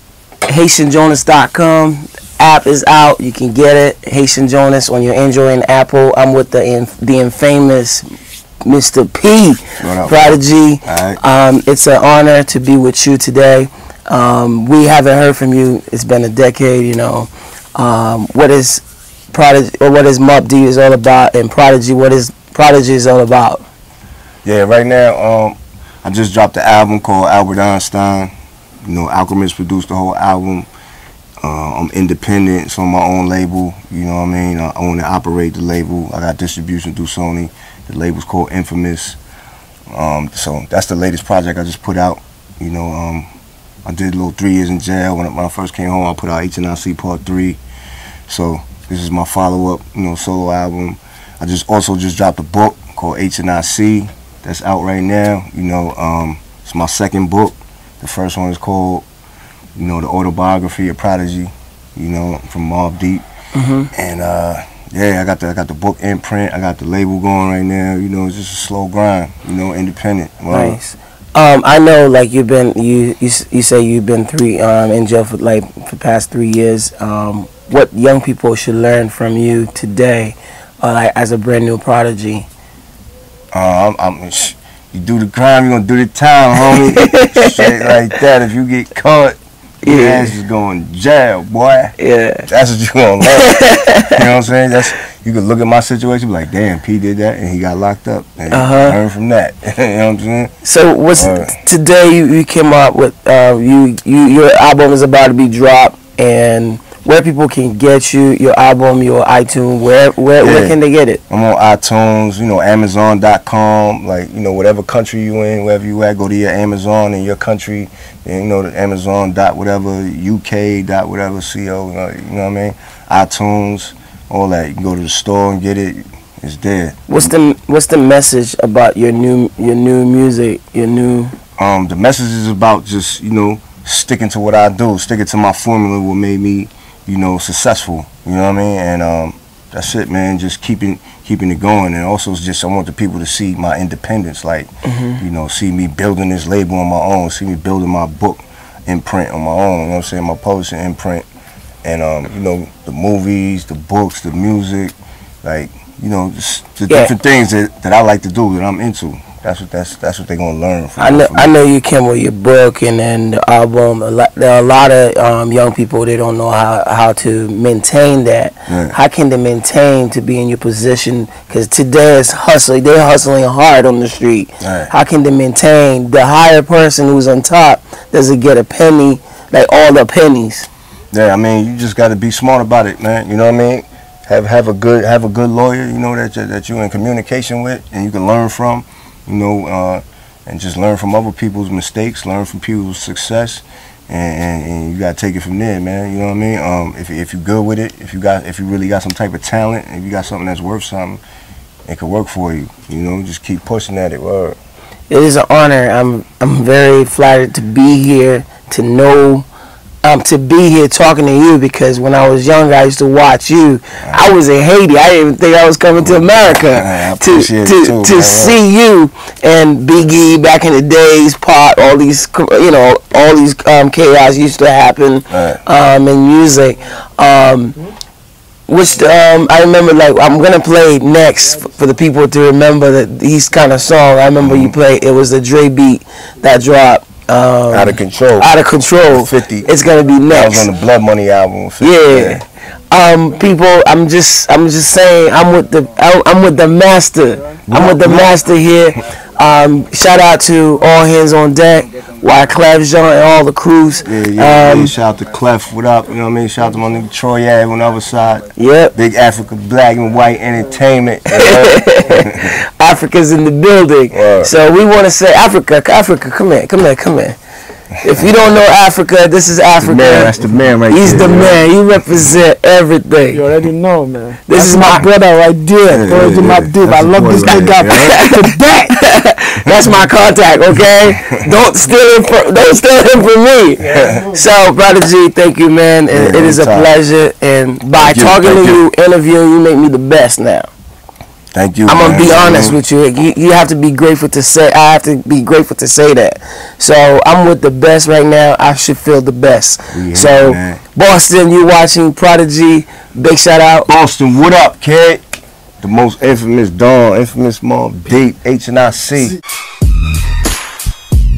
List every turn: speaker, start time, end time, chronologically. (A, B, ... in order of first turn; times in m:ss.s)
0:00.4-0:08.0 A
0:08.6-0:23.6 A
0:09.8-0:11.2 B
0:24.4-0:28.3 B
0:28.8-0:30.7 B
0:31.4-0:39.2 B
0:39.9-0:43.3 B
0:43.8-0:47.6 B
0:48.3-0:59.0 B
0:59.7-1:03.2 B
1:03.5-1:03.9 A
1:03.9-1:10.8 B
1:10.5-1:22.5 A
1:23.5-1:31.9 B
1:26.6-1:27.9 A
1:29.8-1:30.3 A
1:32.0-1:32.5 A
1:32.5-1:40.5 B
1:33.3-1:34.2 A
1:38.5-1:39.0 A
1:40.6-1:51.2 A
1:41.1-1:41.5 B
1:50.4-1:50.8 B
1:51.3-2:07.3 B
2:07.1-2:11.3 A
2:11.6-2:31.2 B
2:24.8-2:25.2 A
2:31.8-2:41.5 B
2:41.0-3:00.7 A
2:48.7-2:48.9 B
2:54.6-2:54.9 B
3:01.1-3:21.2 B
3:21.9-3:24.6 B
3:25.1-3:29.5 A
3:30.0-3:47.8 A
3:34.0-3:34.3 B
3:36.0-3:38.6 B
3:45.3-3:45.6 B
3:48.7-4:00.7 A
3:54.4-3:54.8 B
3:57.7-4:02.4 B
4:01.8-4:14.9 A
4:07.7-4:08.4 B
4:14.0-4:22.5 B
4:18.6-4:18.9 A
4:21.3-4:27.4 A
4:24.1-4:24.5 B
4:28.0-4:30.3 A
4:29.8-4:31.7 B
4:30.9-4:33.5 A
4:33.3-4:38.9 C
4:34.5-4:35.1 A
4:35.9-4:38.3 B
4:37.8-4:50.7 A
4:39.6-4:40.1 B
4:43.9-4:44.3 B
4:43.9-4:44.4 C
4:46.1-4:46.9 B
4:48.0-4:48.8 B
4:51.5-4:52.8 B
4:51.8-5:03.9 A
4:59.9-5:00.8 B
5:03.9-5:05.2 B
5:05.8-5:09.4 B